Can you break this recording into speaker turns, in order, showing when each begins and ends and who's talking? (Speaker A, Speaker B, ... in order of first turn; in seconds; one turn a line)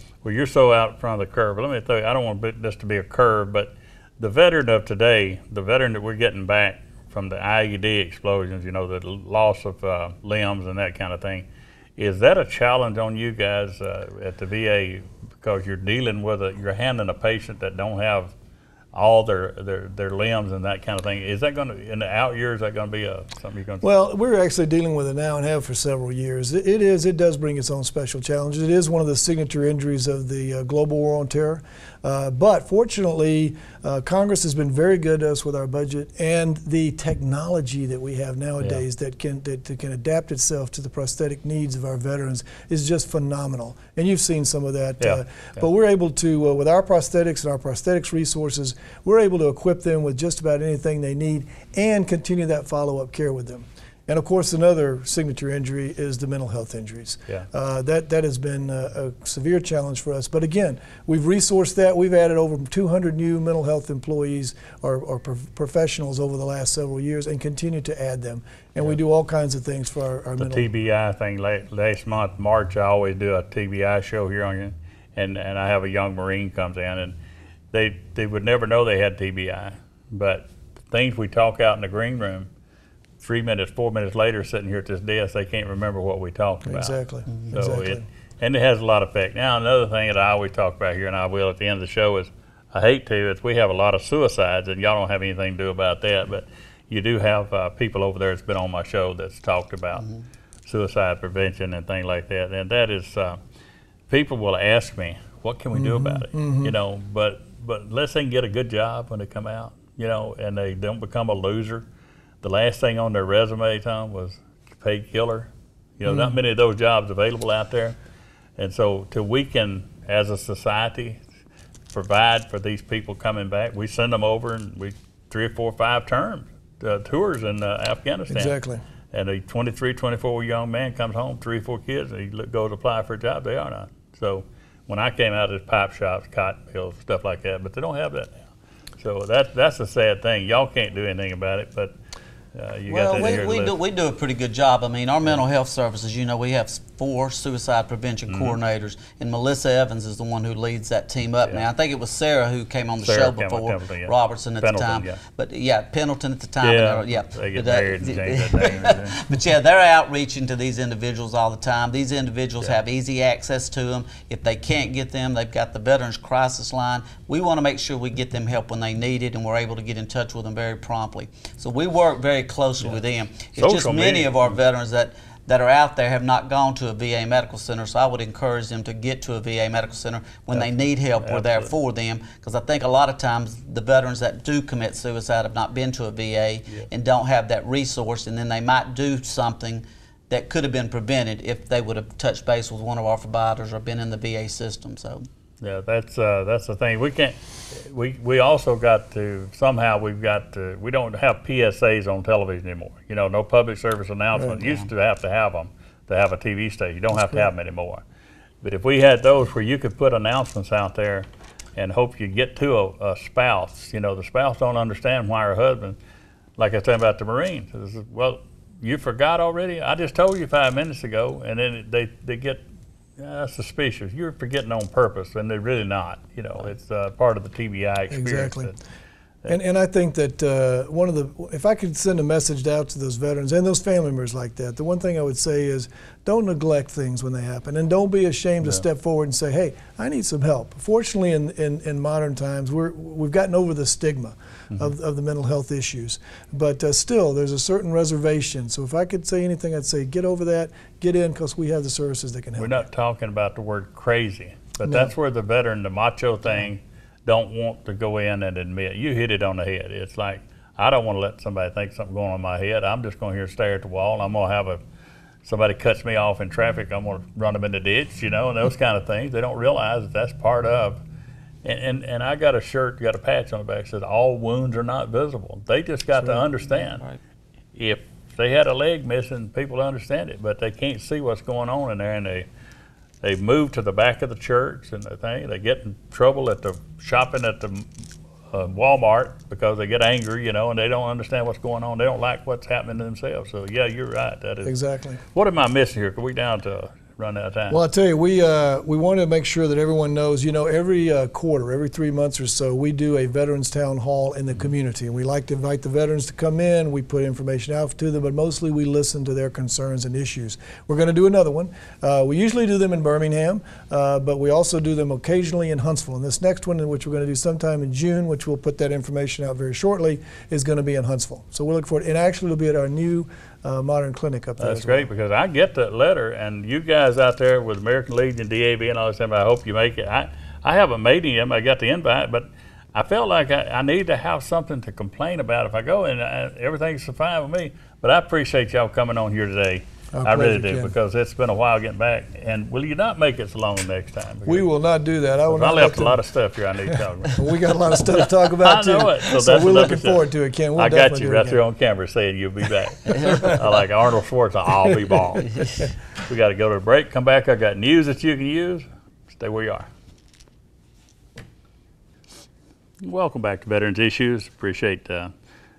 Speaker A: 0.2-18.3
Speaker A: 18.9-23.9
Speaker B: 23.8-70.7
Speaker A: 70.4-77.1
Speaker A: 77.7-82.5
Speaker A: 83.2-100.1
Speaker B: 86.6-88.0
Speaker A: 100.7-103.4
Speaker A: 104.1-111.8
Speaker B: 105.7-106.7
Speaker A: 112.4-118.0
Speaker B: 116.0-116.4
Speaker A: 118.6-121.2
Speaker A: 121.9-128.5
Speaker B: 128.3-128.8
Speaker A: 129.1-138.3
Speaker A: 139.0-141.9
Speaker A: 142.5-143.7
Speaker C: 142.9-195.2
Speaker A: 148.3-148.6
Speaker A: 153.0-155.2
Speaker A: 156.6-159.2
Speaker A: 173.6-174.6
Speaker A: 181.2-181.7
Speaker A: 195.6-208.0
Speaker B: 204.3-204.6
Speaker A: 208.6-216.0
Speaker A: 216.6-222.6
Speaker A: 223.2-228.7
Speaker B: 228.1-228.7
Speaker B: 229.5-252.8
Speaker A: 252.6-264.8
Speaker B: 254.8-255.1
Speaker A: 265.4-271.0
Speaker A: 271.6-277.1
Speaker A: 277.7-282.4
Speaker A: 283.2-287.9
Speaker A: 288.5-294.7
Speaker B: 294.6-295.2
Speaker A: 295.3-297.8
Speaker B: 297.7-325.1
Speaker A: 324.6-344.6
Speaker B: 340.1-340.9
Speaker B: 344.4-346.2
Speaker A: 345.5-350.2
Speaker B: 347.3-351.6
Speaker A: 350.8-355.6
Speaker B: 353.3-353.6
Speaker A: 356.3-359.9
Speaker A: 363.0-365.3